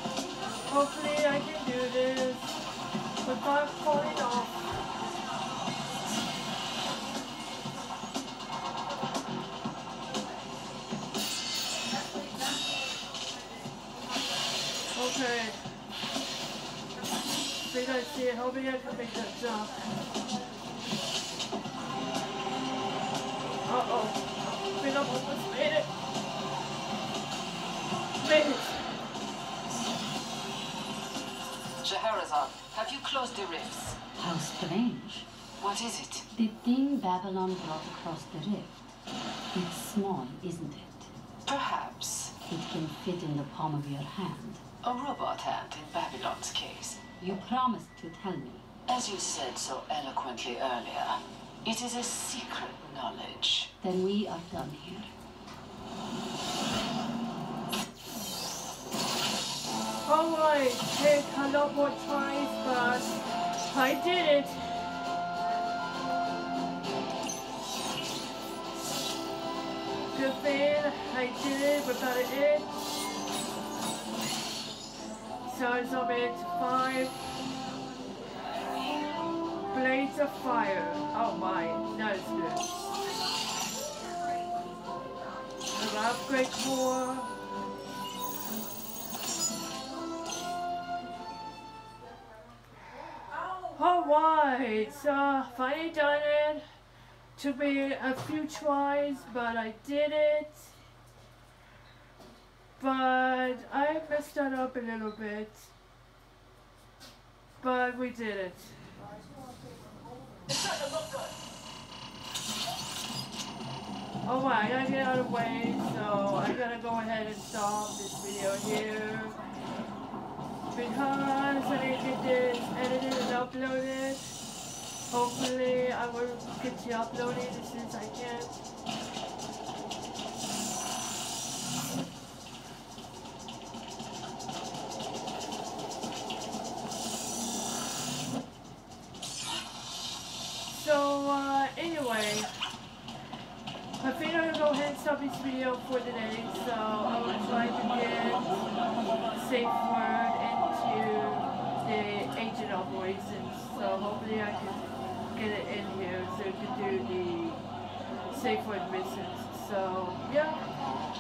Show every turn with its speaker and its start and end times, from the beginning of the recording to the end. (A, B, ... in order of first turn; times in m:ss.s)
0:00.7-0:02.6 A
0:03.2-0:04.6 A
0:14.9-0:15.6 A
0:17.6-0:19.8 A
0:23.6-0:25.9 A
0:28.2-0:28.8 A
0:31.8-0:34.0 B
0:34.2-0:35.3 C
0:35.6-0:36.3 B
0:36.3-0:38.8 C
0:39.5-0:41.1 C
0:41.4-0:42.4 B
0:42.5-0:44.6 C
0:44.8-0:47.1 B
0:47.2-0:48.7 C
0:48.9-0:53.7 B
0:53.8-0:55.1 C
1:00.1-1:04.8 A
1:10.1-1:12.8 A
1:15.5-1:17.2 A
1:19.7-1:22.7 A
1:25.7-1:27.3 A
1:33.5-1:36.6 A
1:37.4-1:40.7 A
1:42.8-1:45.7 A
1:47.6-1:48.8 A
1:54.2-1:59.4 A
2:00.7-2:04.3 A
2:05.1-2:08.6 A
2:20.7-2:22.5 A
2:24.0-2:28.6 A
2:29.3-2:37.6 A
2:38.3-2:40.7 A